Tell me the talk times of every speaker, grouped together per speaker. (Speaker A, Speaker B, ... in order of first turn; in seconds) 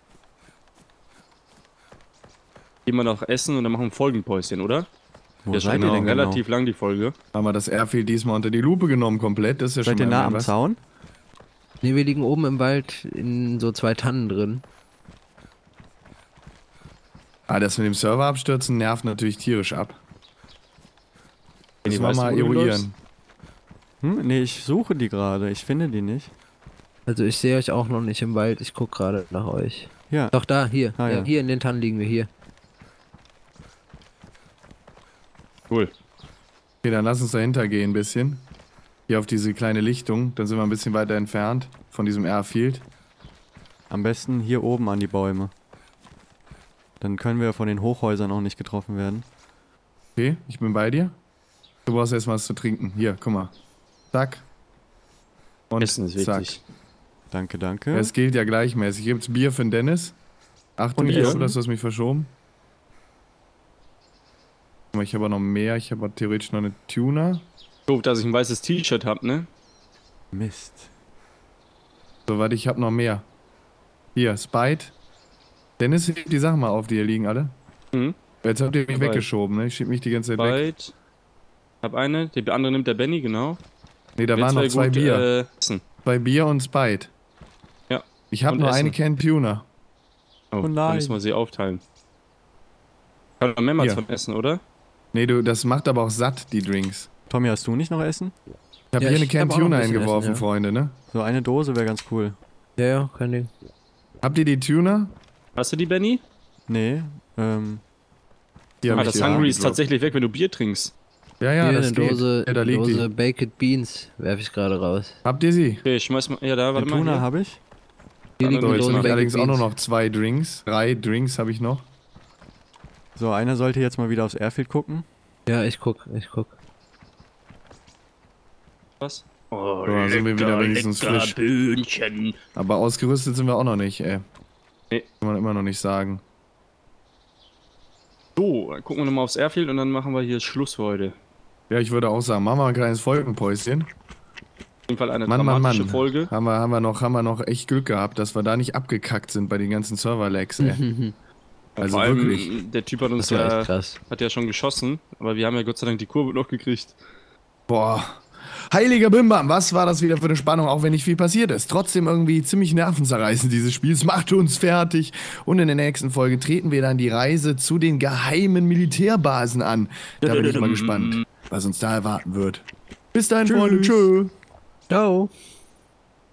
Speaker A: 2.9-4.9, 5.5-7.1, 21.8-22.9, 55.8-56.6, 61.0-61.4, 67.9-69.5, 78.9-79.2, 80.4-80.9, 81.8-83.6, 84.3-85.8, 87.9-89.0, 90.5-91.8, 93.4-94.6, 105.6-106.2, 109.0-110.9, 115.8-117.2, 118.4-119.2, 129.0-132.4, 138.4-141.1, 144.9-146.3, 151.8-157.0, 170.2-171.2, 173.6-173.9
Speaker B: 5.5-6.4, 9.8-10.8, 24.0-26.3, 30.1-30.4, 31.0-31.3, 43.9-45.5, 47.0-49.2, 57.3-58.1, 61.0-61.4, 70.3-70.9, 90.6-91.2, 97.3-98.3, 101.1-102.4, 106.7-107.8, 108.8-109.5, 116.8-117.6, 123.2-125.1
Speaker C: 5.7-6.2, 7.3-10.5, 17.5-20.0, 21.9-22.9, 36.8-38.4, 39.1-42.9, 50.1-51.1, 51.9-53.5, 54.1-54.4, 55.7-56.6, 57.9-60.1, 60.8-62.3, 64.9-67.4, 72.3-73.2, 74.1-74.9, 75.8-77.5, 78.4-80.6, 84.2-85.3, 86.0-87.1, 88.3-89.6, 95.1-97.1, 98.9-100.9, 104.2-105.1, 108.8-109.8, 111.4-113.0, 115.2-115.8, 118.6-121.9, 129.8-131.4, 132.6-134.2, 135.2-136.2, 141.7-143.9, 145.3-150.8, 151.8-152.5, 157.7-174.3
Speaker D: 11.8-14.6, 27.1-32.3, 99.0-100.5, 102.8-103.5, 111.6-115.2, 118.4-119.7, 125.5-126.5, 150.6-151.1, 153.2-154.0, 174.9-175.3